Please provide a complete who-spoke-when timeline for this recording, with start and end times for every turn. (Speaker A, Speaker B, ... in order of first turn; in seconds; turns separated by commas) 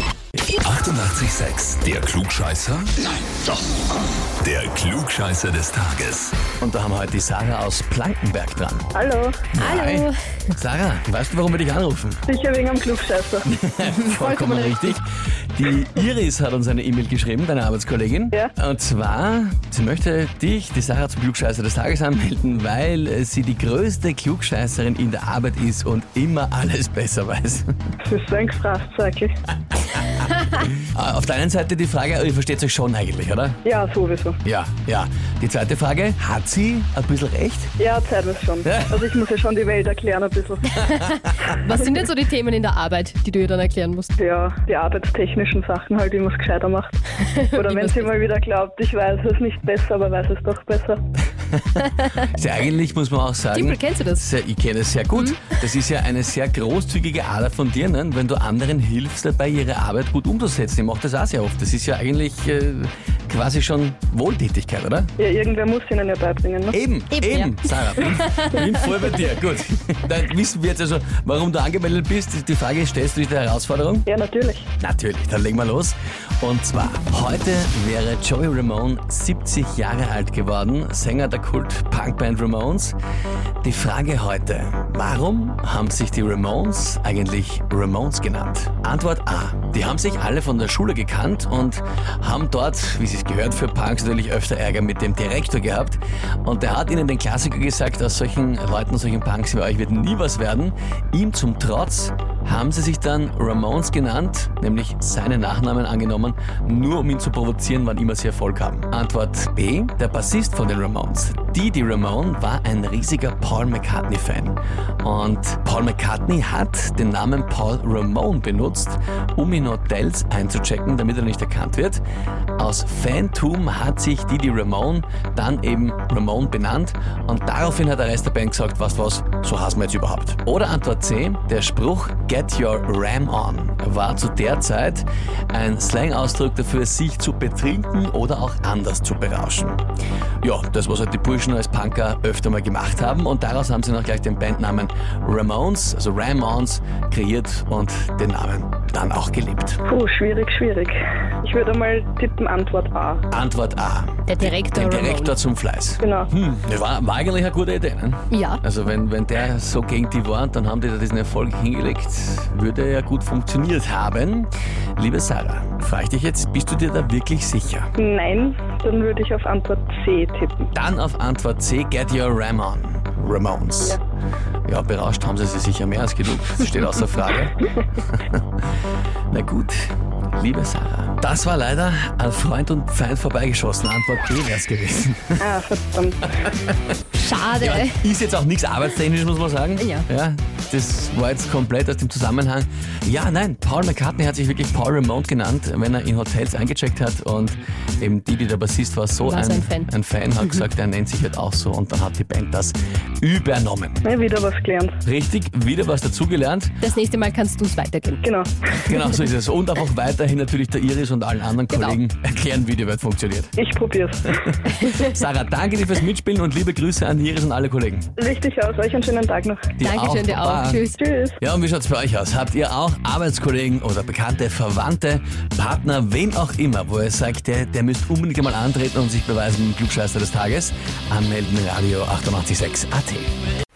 Speaker A: 0.4-2.9, Speaker A: 4.4-6.3, Speaker B: 6.6-8.9, Speaker C: 8.9-9.4, Speaker B: 9.5-12.2, Speaker D: 9.6-10.1, Speaker C: 12.3-13.5, Speaker B: 13.4-27.7, Speaker D: 13.8-14.9, Speaker C: 28.0-29.3, Speaker B: 30.0-33.6, Speaker C: 33.6-34.4, Speaker B: 34.4-37.7, Speaker C: 37.8-40.9, Speaker B: 38.6-39.0, Speaker D: 40.9-44.1, Speaker C: 44.2-51.0, Speaker D: 47.3-48.1, Speaker B: 51.5-65.1, Speaker D: 53.5-54.2, Speaker D: 55.1-55.6, Speaker C: 65.2-66.8, Speaker B: 66.7-74.1, Speaker D: 67.1-68.6, Speaker C: 74.1-74.7, Speaker B: 74.8-82.9, Speaker B: 83.6-122.0, Speaker B: 122.6-139.8, Speaker B: 140.4-149.8, Speaker C: 149.8-153.2, Speaker B: 153.3-167.9, Speaker D: 154.3-155.3, Speaker C: 156.0-156.3, Speaker D: 158.3-158.6, Speaker C: 168.0-170.7, Speaker B: 170.7-174.0, Speaker B: 174.7-178.4, Speaker B: 179.3-185.4, Speaker C: 185.4-186.3, Speaker B: 186.4-186.9, Speaker D: 187.1-187.9, Speaker B: 187.5-204.0, Speaker D: 189.8-190.0, Speaker D: 199.2-199.9, Speaker C: 204.0-205.0, Speaker B: 205.0-206.7, Speaker D: 206.8-208.2, Speaker C: 208.2-208.5, Speaker B: 208.7-213.5, Speaker D: 211.7-212.0, Speaker C: 213.6-214.6, Speaker B: 214.8-218.1, Speaker C: 218.2-219.7, Speaker B: 219.8-220.8, Speaker D: 219.8-221.0, Speaker C: 220.9-221.4, Speaker B: 221.4-233.3